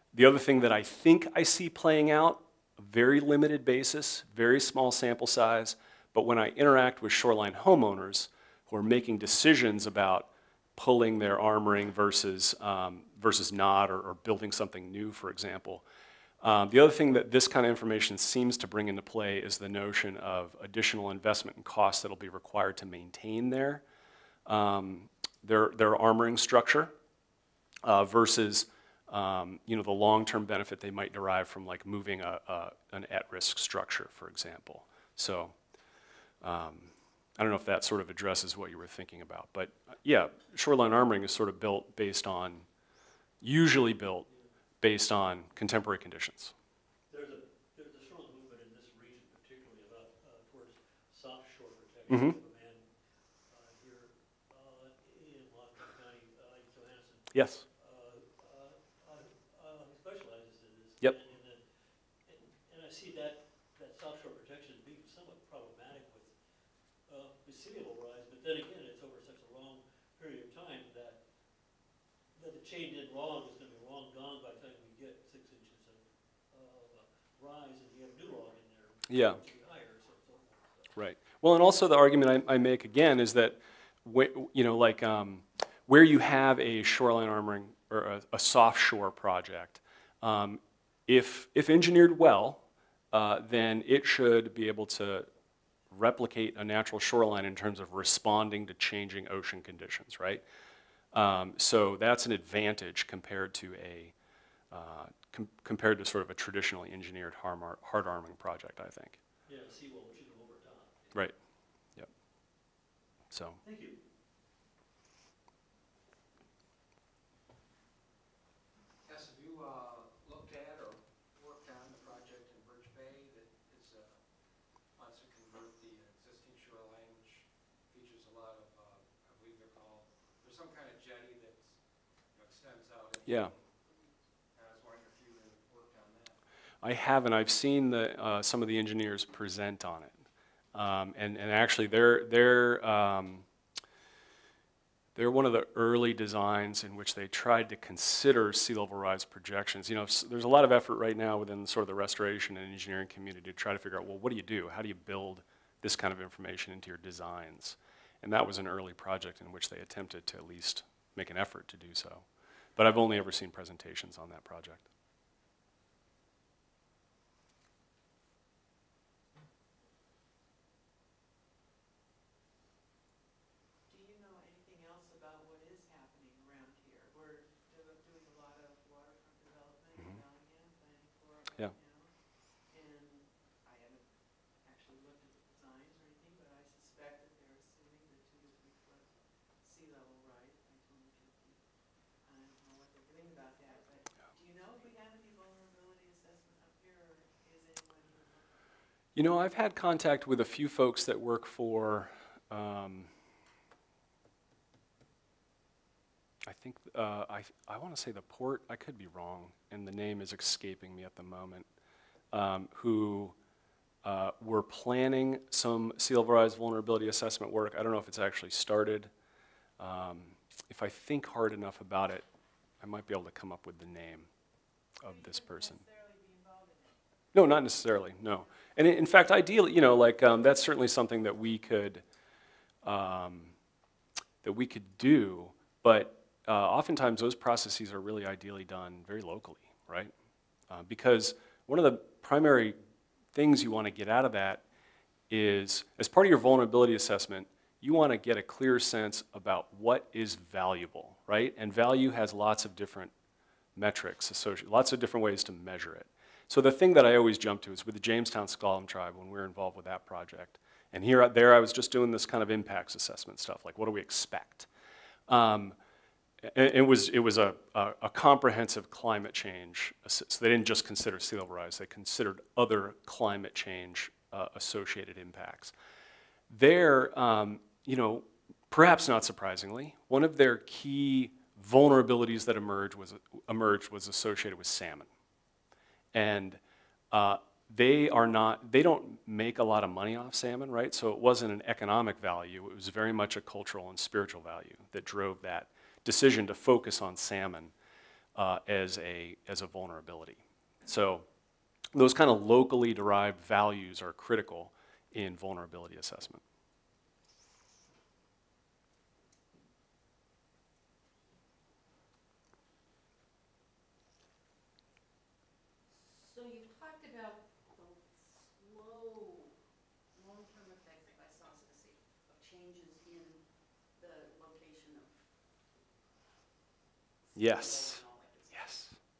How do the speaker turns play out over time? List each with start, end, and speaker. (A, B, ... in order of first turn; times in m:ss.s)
0:00.1-0:15.8 A
0:16.4-0:23.8 A
0:24.5-0:26.9 A
0:27.8-0:35.5 A
0:36.4-0:42.7 A
0:43.4-0:44.3 A
0:44.8-0:46.5 A
0:47.1-0:52.9 B
0:52.1-0:52.4 A
0:53.5-1:01.7 B
0:57.3-0:57.6 A
1:02.3-1:06.3 B
1:07.1-1:11.2 B
1:12.4-1:21.0 B
1:19.1-1:19.4 A
1:21.0-1:35.3 A
1:35.9-1:40.4 A
1:41.1-1:44.1 A
1:44.7-1:49.2 A
1:49.5-1:51.0 B
1:53.3-1:53.6 A
1:53.6-1:54.0 B
1:59.0-2:16.4 C
2:13.3-2:13.6 A
2:16.8-2:20.2 A
2:20.7-2:23.4 A
2:25.2-2:42.2 A
2:42.8-2:44.9 A
2:53.9-3:18.6 D
3:00.0-3:00.2 A
3:19.2-3:23.1 A
3:26.5-3:31.7 A
3:32.3-3:33.4 A
3:34.0-3:39.1 A
3:39.8-3:42.2 A
3:42.8-3:44.3 A
3:45.0-3:45.8 A
3:45.0-3:47.1 D
3:47.3-3:52.0 A
3:52.8-3:53.5 A
3:54.4-4:00.1 A
4:00.7-4:02.8 A
4:03.3-4:04.6 A
4:05.3-4:13.1 A
4:13.8-4:24.7 A
4:25.3-4:25.8 A
4:26.4-4:35.7 A
4:36.5-4:45.1 A
4:46.1-4:46.6 A
4:47.1-4:57.7 A
4:58.4-5:01.2 A
5:01.9-5:06.4 A
5:15.9-5:19.6 E
5:20.1-5:25.3 E
5:27.2-5:28.8 E
5:27.4-5:29.0 A